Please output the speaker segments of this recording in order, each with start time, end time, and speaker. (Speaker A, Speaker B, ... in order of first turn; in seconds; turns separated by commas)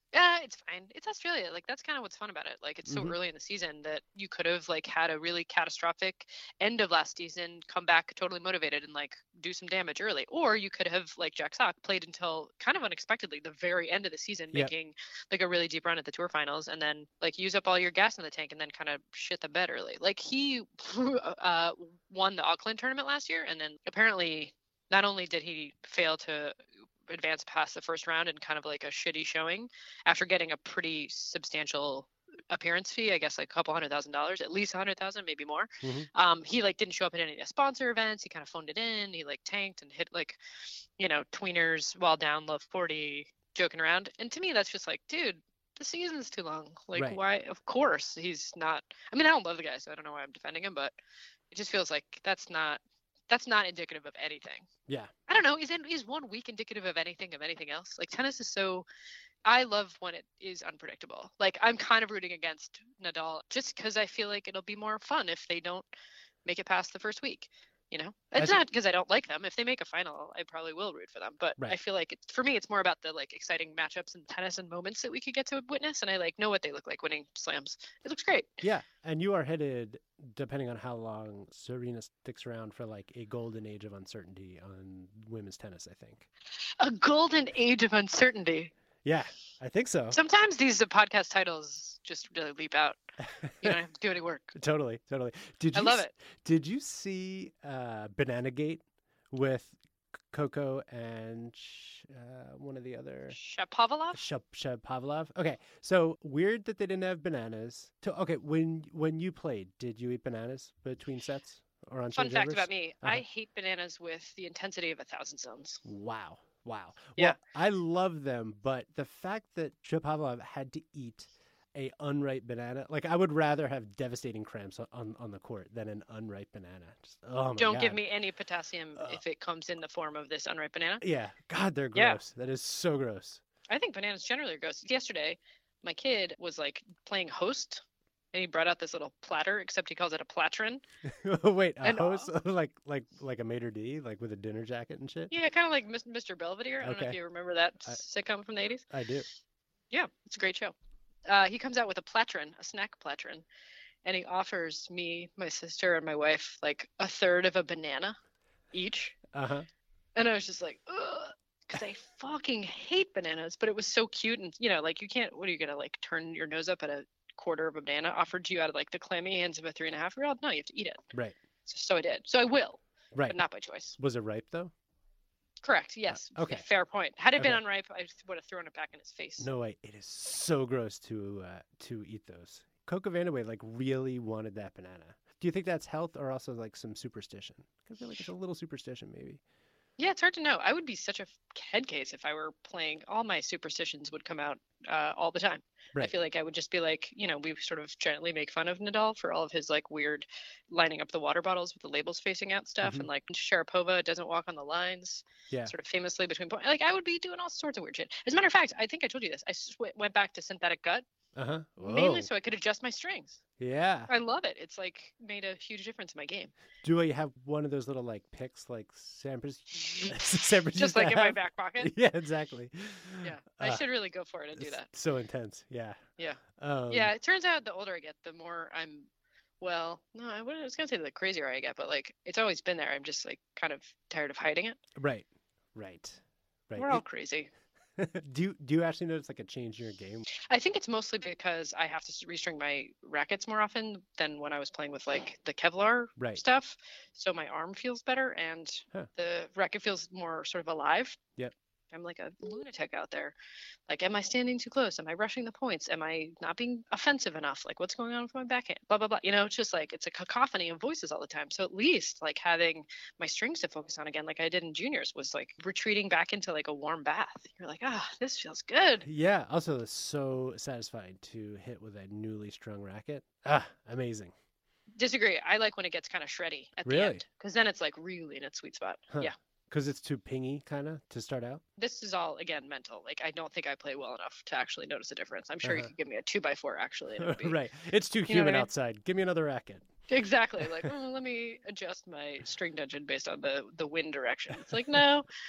Speaker A: 0.1-26.6, Speaker B: 2.9-3.2, Speaker A: 27.1-51.0, Speaker B: 35.8-36.1, Speaker B: 47.0-47.2, Speaker A: 51.5-54.7, Speaker A: 55.3-58.9, Speaker A: 59.5-65.9, Speaker A: 66.5-78.7, Speaker B: 68.4-68.6, Speaker B: 78.6-86.3, Speaker A: 86.8-88.7, Speaker B: 89.0-90.2, Speaker A: 90.1-93.0, Speaker A: 93.6-94.5, Speaker B: 94.5-99.8, Speaker A: 95.7-96.2, Speaker B: 100.3-103.4, Speaker A: 103.3-104.2, Speaker B: 104.1-113.2, Speaker A: 112.1-115.8, Speaker B: 115.8-128.0, Speaker A: 127.6-131.0, Speaker B: 131.0-133.4, Speaker A: 131.9-132.2, Speaker A: 133.7-140.8, Speaker B: 141.1-145.3, Speaker A: 141.8-142.3, Speaker A: 145.3-148.9, Speaker B: 146.8-147.2, Speaker B: 148.9-149.3, Speaker A: 149.9-150.8, Speaker A: 151.3-153.5, Speaker A: 154.1-158.2, Speaker A: 158.7-159.2, Speaker B: 159.3-159.7, Speaker A: 160.2-171.0, Speaker A: 171.7-174.0, Speaker B: 173.2-173.4, Speaker B: 174.0-174.7, Speaker A: 175.6-179.5, Speaker B: 176.1-176.7, Speaker B: 177.3-177.6, Speaker B: 179.4-189.4, Speaker A: 190.0-211.0, Speaker B: 202.8-203.1, Speaker B: 211.3-212.3, Speaker A: 211.8-213.4, Speaker B: 213.6-214.1, Speaker A: 214.1-216.5, Speaker B: 216.8-223.8, Speaker A: 219.8-220.2, Speaker A: 220.8-221.9, Speaker A: 223.2-224.9, Speaker B: 224.6-226.0, Speaker A: 226.2-229.1, Speaker B: 226.6-227.1, Speaker A: 229.6-234.8, Speaker B: 235.0-237.0, Speaker A: 236.8-237.5, Speaker B: 238.0-240.3, Speaker A: 240.4-251.2, Speaker B: 246.2-246.4, Speaker A: 251.9-253.3, Speaker A: 253.9-269.1, Speaker B: 269.1-274.3, Speaker A: 275.0-279.3, Speaker B: 276.9-277.2, Speaker B: 279.1-281.6, Speaker A: 281.8-287.6, Speaker B: 285.6-285.9, Speaker B: 287.2-289.9, Speaker A: 288.3-288.7, Speaker A: 290.1-295.3